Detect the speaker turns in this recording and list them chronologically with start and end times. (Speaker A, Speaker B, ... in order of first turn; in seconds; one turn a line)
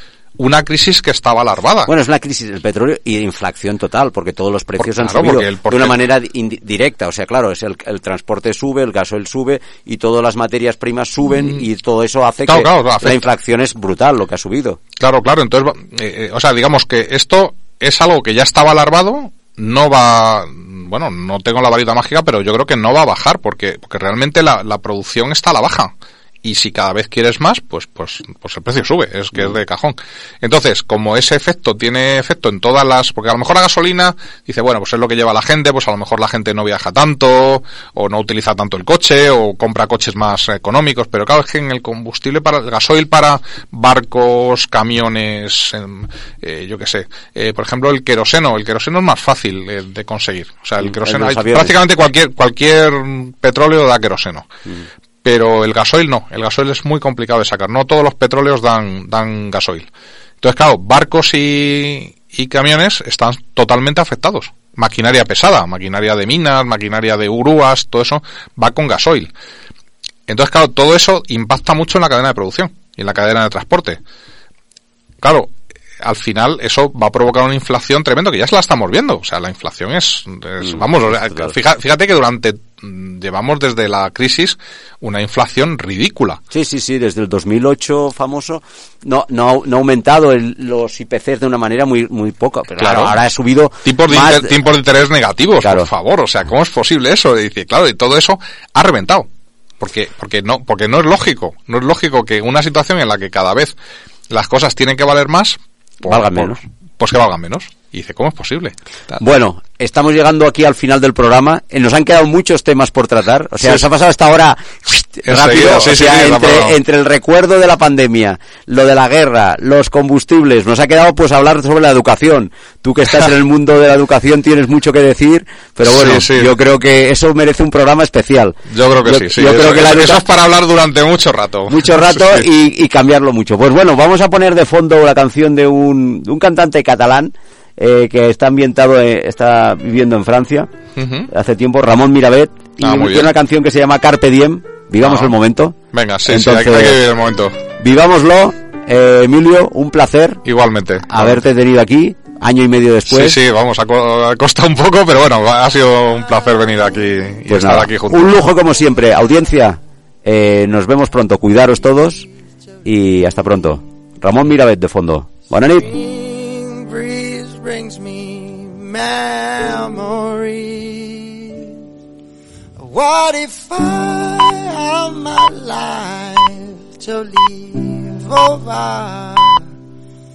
Speaker A: 0.4-1.9
Speaker B: 1.9-14.8
Speaker A: 4.8-6.0
Speaker A: 11.3-11.6
Speaker A: 12.5-13.2
Speaker A: 15.0-54.5
Speaker B: 50.8-51.7
Speaker A: 55.2-59.9
Speaker A: 60.4-69.3
Speaker A: 70.3-74.0
Speaker A: 75.2-86.4
Speaker B: 80.6-81.5
Speaker B: 86.5-94.5
Speaker A: 92.8-93.2
Speaker A: 93.8-99.3
Speaker B: 95.6-95.9
Speaker A: 99.8-103.7
Speaker A: 104.3-109.2
Speaker B: 106.0-106.6
Speaker B: 109.2-130.2
Speaker A: 113.6-113.9
Speaker A: 115.2-116.8
Speaker A: 125.8-126.5
Speaker A: 128.7-132.4
Speaker B: 131.7-140.7
Speaker A: 140.9-141.3
Speaker B: 141.3-145.8
Speaker A: 142.8-143.3
Speaker A: 145.0-145.3
Speaker A: 145.9-147.6
Speaker B: 146.3-147.0
Speaker B: 147.8-150.4
Speaker A: 150.4-151.4
Speaker B: 151.1-153.4
Speaker A: 153.1-158.4
Speaker B: 157.5-162.2
Speaker B: 162.8-165.9
Speaker C: 165.8-171.7
Speaker C: 172.8-179.7